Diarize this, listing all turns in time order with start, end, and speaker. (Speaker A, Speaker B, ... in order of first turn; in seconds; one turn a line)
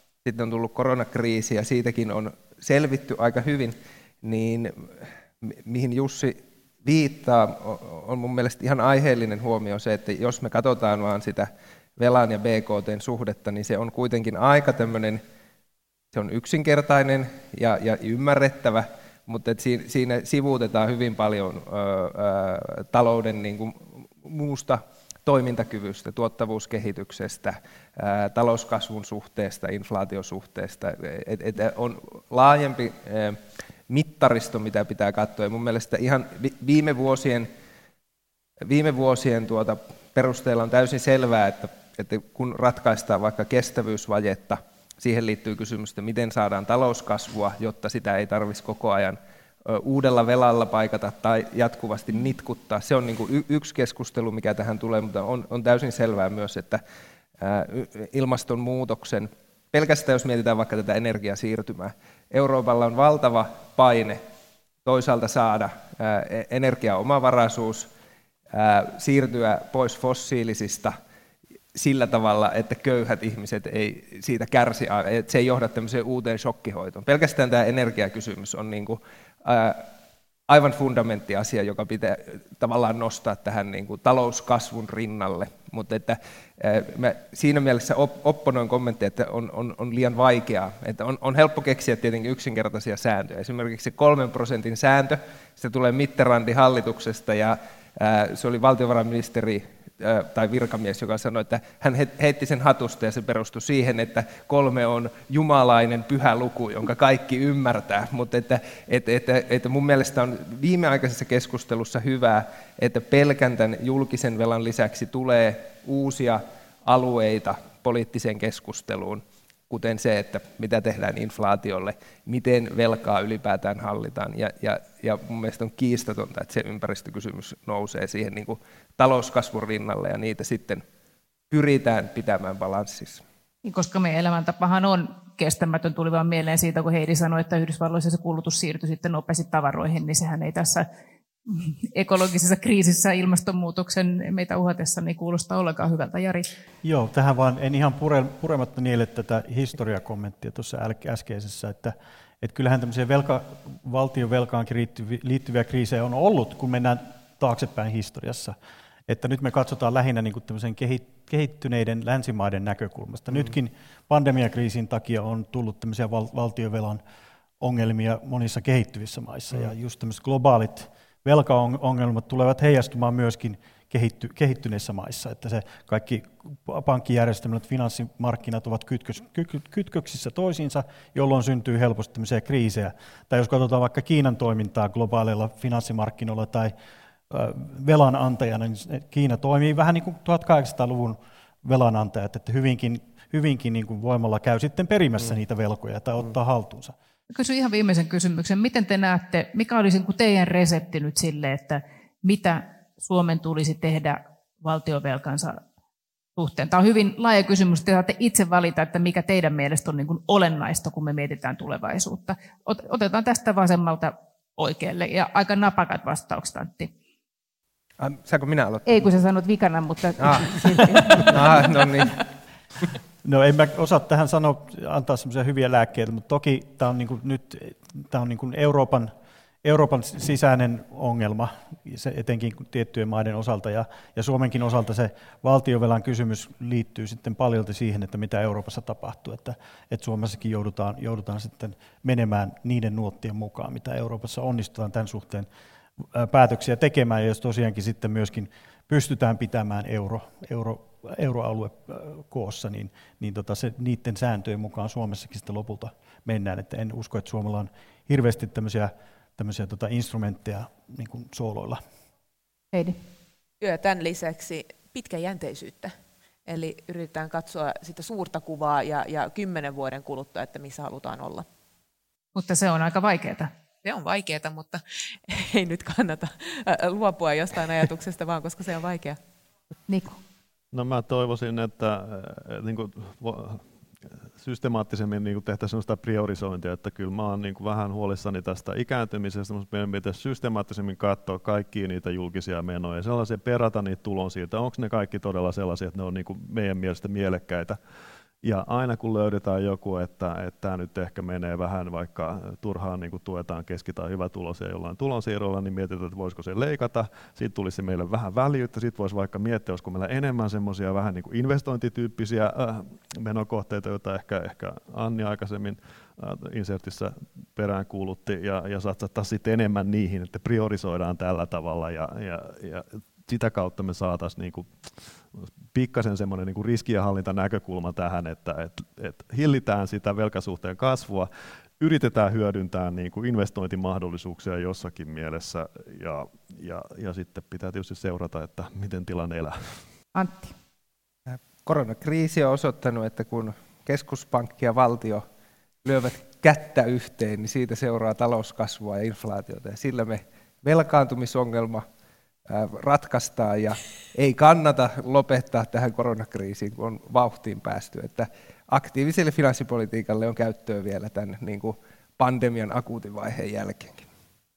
Speaker A: 0.2-15.2
Speaker A: 16.1-37.5
Speaker A: 38.6-56.8
Speaker A: 57.4-64.2
Speaker A: 64.8-67.9
Speaker A: 68.5-71.0
Speaker A: 71.7-79.9
Speaker A: 80.5-130.8
Speaker A: 131.5-133.2
Speaker B: 133.6-140.8
Speaker B: 141.4-146.5
Speaker C: 146.8-158.6
Speaker C: 159.1-167.0
Speaker C: 167.6-186.7
Speaker C: 187.3-196.9
Speaker B: 197.3-205.6
Speaker B: 206.3-216.9
Speaker A: 218.0-219.1
Speaker B: 218.8-222.1
Speaker A: 220.2-220.6
Speaker A: 221.2-222.2
Speaker C: 223.2-229.1
Speaker C: 229.6-245.5
Speaker C: 246.1-261.8
Speaker B: 262.7-263.0
Speaker D: 263.6-265.9
Speaker D: 266.4-271.4
Speaker B: 272.3-273.5
Speaker D: 273.8-279.2
Speaker B: 279.9-280.2
Speaker E: 280.7-283.6
Speaker E: 284.4-297.8
Speaker E: 298.4-339.8
Speaker B: 340.1-340.5
Speaker A: 341.3-345.2
Speaker A: 345.8-351.9
Speaker A: 352.5-364.1